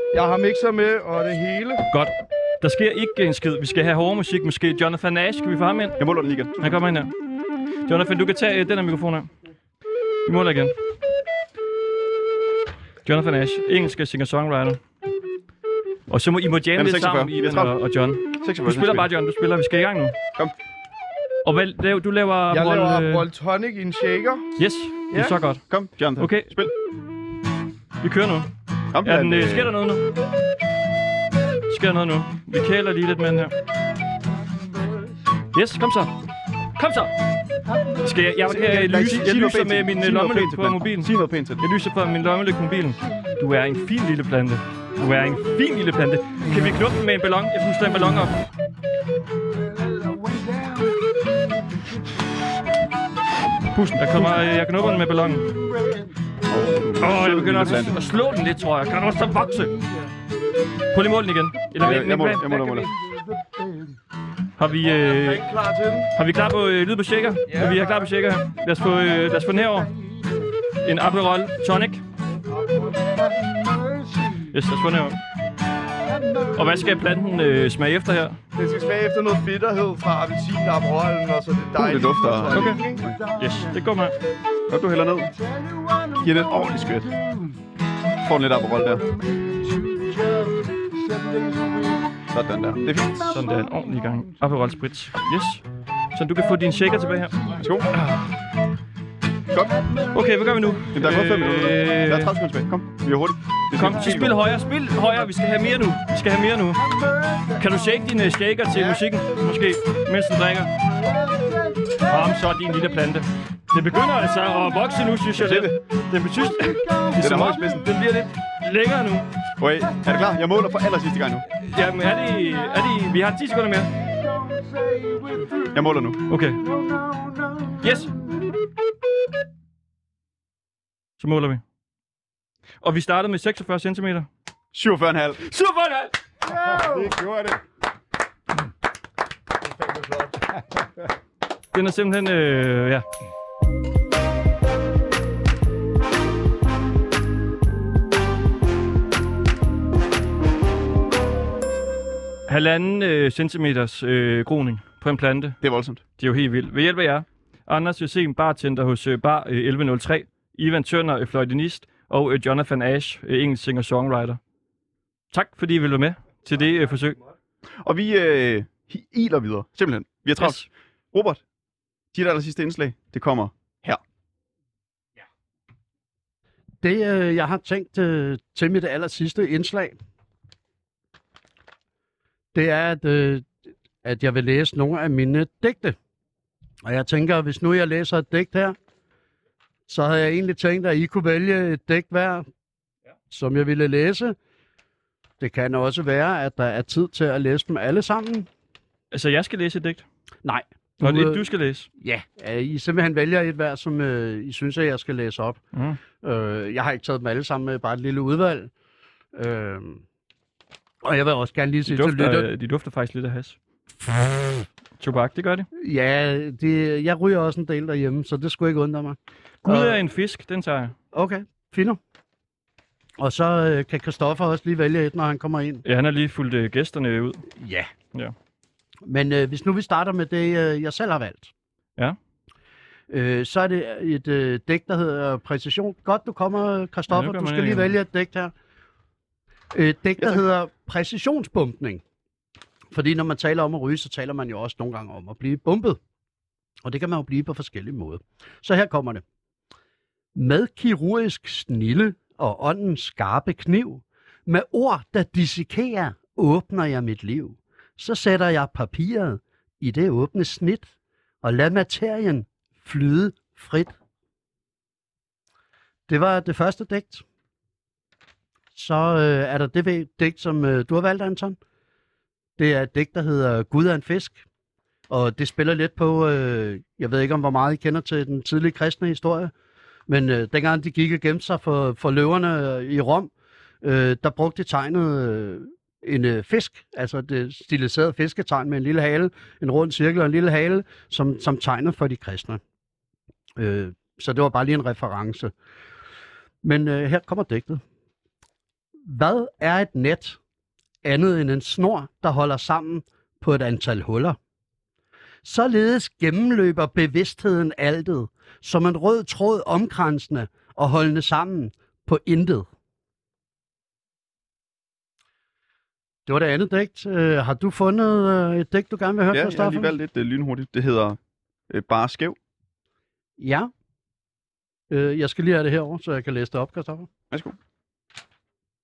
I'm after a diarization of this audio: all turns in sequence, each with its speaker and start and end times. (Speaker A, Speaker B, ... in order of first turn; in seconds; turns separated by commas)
Speaker A: 0.1-1.8, Speaker B: 1.9-6.0, Speaker C: 6.0-6.7, Speaker B: 6.6-7.1, Speaker B: 7.9-9.3, Speaker B: 10.2-10.7, Speaker B: 13.0-14.8, Speaker B: 16.1-20.1, Speaker C: 16.8-17.7, Speaker C: 18.4-19.1, Speaker B: 21.4-23.2, Speaker A: 22.5-24.4, Speaker B: 24.6-26.5, Speaker C: 25.7-26.7, Speaker B: 28.0-28.5, Speaker C: 28.9-29.7, Speaker B: 29.0-30.0, Speaker B: 31.7-33.5, Speaker B: 35.5-36.1, Speaker B: 36.8-37.1, Speaker B: 38.0-48.4, Speaker C: 38.5-41.6, Speaker C: 53.7-54.2, Speaker B: 54.0-55.5, Speaker C: 56.5-58.1, Speaker B: 57.0-59.8, Speaker B: 60.9-62.8, Speaker C: 61.8-62.9, Speaker B: 64.6-65.5, Speaker A: 65.0-66.1, Speaker B: 66.1-69.9, Speaker A: 67.5-67.9, Speaker B: 70.8-72.0, Speaker A: 72.5-73.2, Speaker B: 74.5-75.2, Speaker B: 76.5-78.4, Speaker A: 78.5-83.2, Speaker C: 81.8-83.1, Speaker B: 82.5-82.8, Speaker B: 83.3-84.1, Speaker C: 84.7-85.3, Speaker C: 86.2-87.2, Speaker C: 88.2-89.1, Speaker C: 92.3-93.5, Speaker B: 93.3-98.2, Speaker C: 97.6-97.9, Speaker C: 99.5-99.9, Speaker B: 100.1-102.3, Speaker C: 100.9-104.4, Speaker B: 103.8-106.9, Speaker B: 107.5-110.7, Speaker B: 112.0-119.3, Speaker C: 115.4-115.7, Speaker C: 117.2-117.9, Speaker C: 119.6-121.4, Speaker B: 121.6-123.9, Speaker C: 125.7-126.2, Speaker B: 126.3-126.7, Speaker B: 127.8-128.2, Speaker B: 131.2-131.6, Speaker B: 132.8-134.3, Speaker C: 134.7-135.4, Speaker B: 135.4-136.1, Speaker A: 136.8-137.6, Speaker A: 139.9-140.3, Speaker B: 141.7-143.0, Speaker B: 152.5-155.6, Speaker C: 155.6-156.0, Speaker B: 156.2-164.4, Speaker B: 165.3-167.2, Speaker C: 167.8-171.4, Speaker B: 170.4-170.6, Speaker C: 172.1-174.0, Speaker D: 176.8-180.0, Speaker D: 182.5-186.0, Speaker D: 186.8-188.8, Speaker D: 189.9-192.4, Speaker D: 193.3-194.3, Speaker D: 195.4-198.5, Speaker B: 199.1-200.1, Speaker D: 200.4-201.4, Speaker B: 201.0-201.9, Speaker D: 202.0-205.6, Speaker B: 205.7-206.0, Speaker D: 206.2-208.7, Speaker D: 209.3-210.0, Speaker D: 211.0-212.5, Speaker B: 211.9-213.6, Speaker B: 215.0-215.7, Speaker D: 215.8-220.0, Speaker B: 219.6-220.9, Speaker D: 221.1-222.0, Speaker D: 223.2-225.8, Speaker B: 225.8-227.4, Speaker D: 227.6-227.9, Speaker D: 229.1-231.5, Speaker D: 233.1-238.5, Speaker B: 237.1-237.9, Speaker D: 239.7-242.0, Speaker D: 242.9-246.0, Speaker D: 246.8-249.2, Speaker D: 250.3-260.9, Speaker D: 261.4-263.9, Speaker D: 266.1-267.2, Speaker D: 268.7-271.6, Speaker D: 272.6-274.4, Speaker D: 275.1-279.5, Speaker D: 280.1-283.3, Speaker D: 283.8-292.6, Speaker D: 293.6-295.5, Speaker D: 296.6-297.8, Speaker D: 299.0-300.4, Speaker D: 301.0-304.4, Speaker D: 305.4-312.7, Speaker D: 316.3-319.9, Speaker C: 319.3-321.2, Speaker C: 321.7-322.4, Speaker D: 323.4-323.7, Speaker D: 324.9-327.1, Speaker C: 327.3-327.6